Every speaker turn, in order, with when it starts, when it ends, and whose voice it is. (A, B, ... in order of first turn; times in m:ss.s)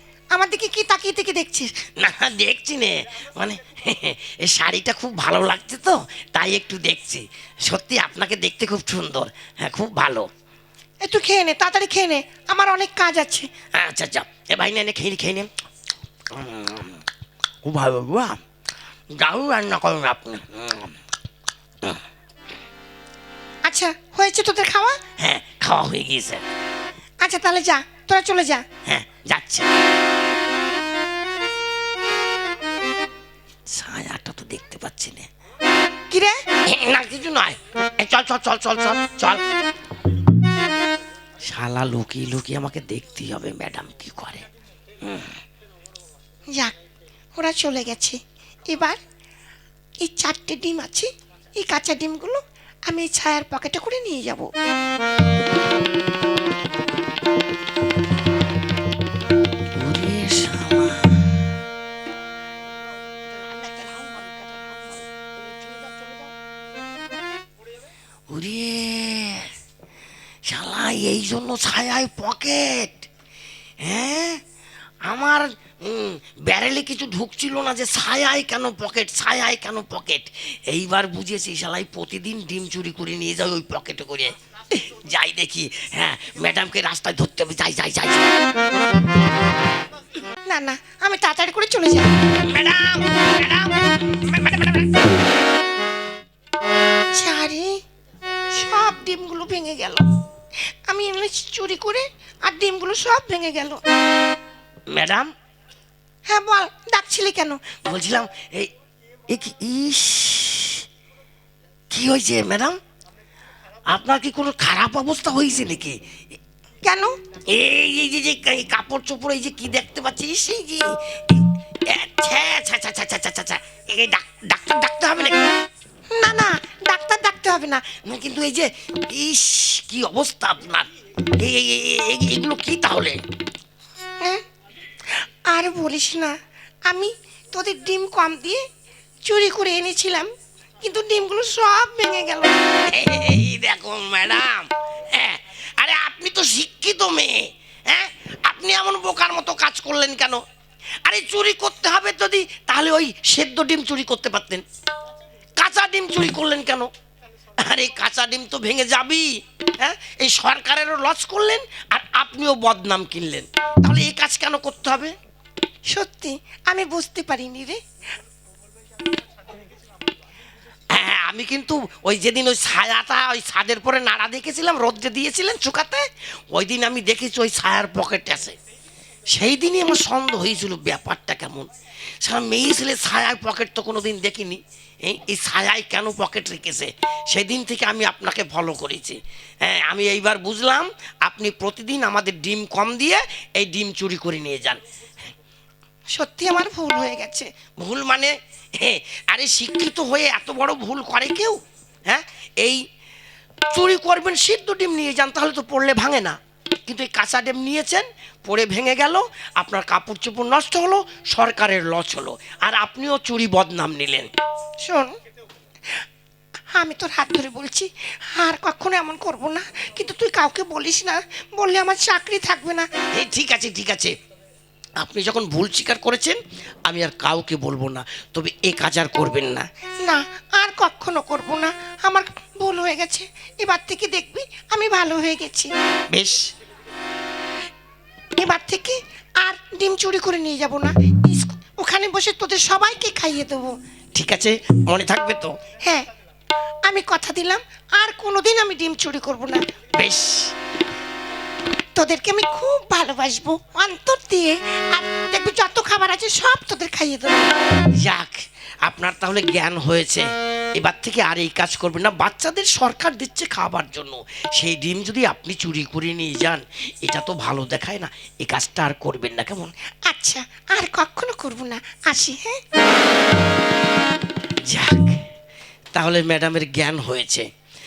0:00.3-0:01.7 A
0:02.0-0:10.3 B
0:11.0-0:13.5 A
0:13.7-0:15.5 B
0:16.3-0:17.0 B
0:17.6-0:18.4 B
0:19.2-0:20.9 B
0:23.6-0:25.0 A
0:25.2-0:26.4 B
0:27.2-0:28.6 A
0:28.8-0:29.7 B
0:33.7-0:35.3 B
0:36.6-0:39.4 B
0:41.4-0:44.4 B
0:45.0-0:45.3 B
0:47.4-0:49.0 A
0:50.0-0:54.5 A
0:59.7-1:01.3 B
1:03.3-1:06.3 B
1:08.3-1:09.5 B
1:10.4-1:13.1 B
1:13.8-1:14.4 B
1:15.0-1:28.2 B
1:30.5-1:32.1 A
1:32.4-1:34.9 B
1:37.1-1:37.8 A
1:38.5-1:40.0 A
1:40.9-1:43.8 A
1:44.9-1:45.3 B
1:46.3-1:47.6 A
1:47.7-1:48.7 B
1:49.3-1:50.8 B
1:51.9-1:52.8 B
1:53.9-1:56.0 B
1:56.8-1:57.2 A
1:57.5-2:05.4 B
2:06.1-2:07.9 A
2:07.9-2:10.9 B
2:11.4-2:13.2 B
2:15.5-2:16.4 A
2:16.9-2:18.6 A
2:19.2-2:20.3 A
2:20.8-2:22.6 A
2:22.9-2:30.4 B
2:31.0-2:34.6 B
2:35.6-2:36.9 B
2:37.6-2:45.1 B
2:45.9-2:47.8 A
2:50.9-2:58.5 B
2:59.3-3:01.7 B
3:02.2-3:14.8 B
3:16.1-3:17.5 A
3:17.8-3:22.8 B
3:23.7-3:34.3 B
3:34.8-3:35.1 A
3:36.7-3:42.9 A
3:43.1-3:44.1 B
3:45.0-3:49.6 B
3:50.0-3:55.7 A
3:56.1-3:56.5 B
3:58.4-4:03.8 A
4:04.1-4:05.6 B
4:06.8-4:09.6 A
4:10.0-4:10.5 B
4:12.0-4:17.5 A
4:18.0-4:20.2 B
4:20.8-4:29.7 B
4:30.1-4:32.6 A
4:34.6-4:35.2 B
4:35.9-4:37.4 B